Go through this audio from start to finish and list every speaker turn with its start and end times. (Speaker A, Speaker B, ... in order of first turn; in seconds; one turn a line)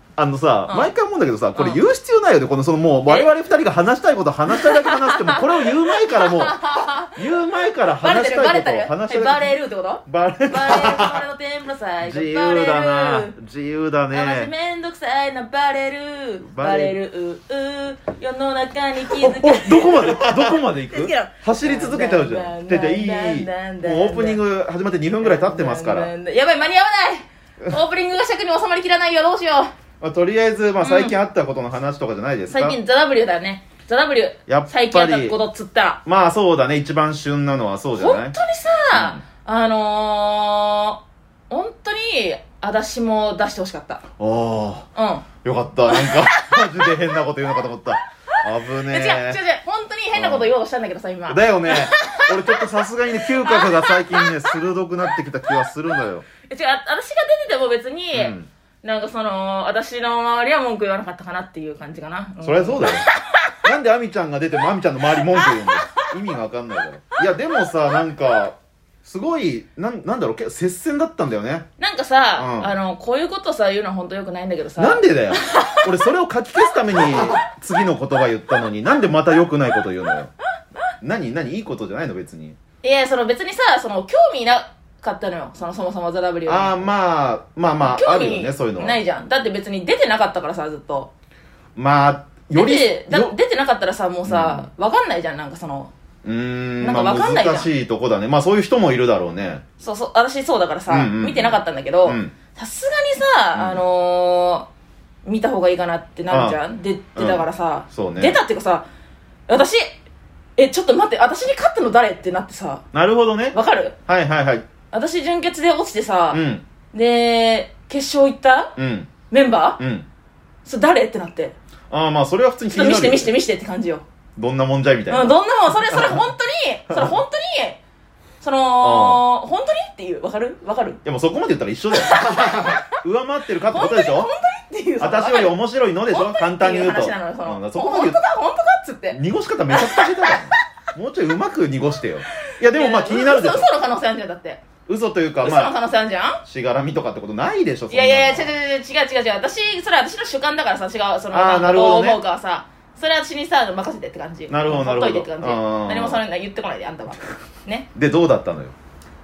Speaker A: 0.2-6.6
Speaker B: 1.6-1.8
Speaker B: 4.6-7.2
Speaker A: 7.1-11.2
Speaker B: 8.0-13.3
Speaker A: 12.0-14.5
Speaker B: 14.1-24.4
Speaker A: 16.4-16.9
Speaker A: 19.1-26.1
Speaker B: 25.2-29.7
Speaker A: 30.0-32.8
Speaker B: 30.8-31.1
Speaker B: 32.5-36.0
Speaker A: 34.5-35.4
Speaker A: 36.0-38.4
Speaker B: 38.0-44.0
Speaker A: 38.9-39.2
Speaker A: 44.2-44.9
Speaker B: 44.9-45.2
Speaker A: 45.4-49.4
Speaker B: 45.9-46.9
Speaker B: 48.3-54.6
Speaker A: 50.1-50.5
Speaker A: 51.3-56.2
Speaker B: 56.4-63.6
Speaker A: 58.1-58.5
Speaker A: 62.4-63.1
Speaker A: 63.6-71.7
Speaker B: 65.3-66.1
Speaker B: 71.8-75.9
Speaker A: 72.3-72.7
Speaker A: 74.8-80.3
Speaker B: 77.0-77.3
Speaker A: 81.0-82.6
Speaker B: 82.8-86.9
Speaker A: 86.5-89.0
Speaker B: 87.8-91.1
Speaker A: 91.8-93.3
Speaker B: 92.5-95.9
Speaker A: 94.3-94.7
Speaker A: 96.2-99.6
Speaker B: 96.8-97.7
Speaker B: 99.8-104.7
Speaker A: 100.9-102.3
Speaker A: 103.5-103.8
Speaker B: 105.2-108.8
Speaker A: 106.3-106.6
Speaker A: 107.2-108.4
Speaker B: 109.5-109.9
Speaker B: 110.6-112.8
Speaker A: 112.9-113.5
Speaker B: 113.5-113.9
Speaker A: 114.1-114.6
Speaker B: 114.9-116.4
Speaker A: 116.3-116.6
Speaker B: 116.9-118.7
Speaker A: 118.8-119.1
Speaker B: 119.3-119.8
Speaker A: 119.8-120.1
Speaker B: 120.6-121.5
Speaker A: 121.9-123.3
Speaker B: 122.7-124.0
Speaker A: 124.3-125.3
Speaker B: 125.1-127.8
Speaker A: 125.9-126.2
Speaker A: 126.9-127.2
Speaker B: 128.4-131.0
Speaker A: 128.8-129.2
Speaker A: 131.0-134.3
Speaker B: 132.0-132.9
Speaker B: 133.7-135.6
Speaker A: 135.0-138.2
Speaker B: 136.1-139.2
Speaker A: 139.1-143.7
Speaker B: 139.7-140.4
Speaker B: 142.7-144.6
Speaker A: 144.9-145.7
Speaker B: 145.4-146.4
Speaker A: 146.4-148.5
Speaker B: 147.9-157.8
Speaker A: 151.3-152.2
Speaker A: 154.5-156.2
Speaker A: 157.9-158.7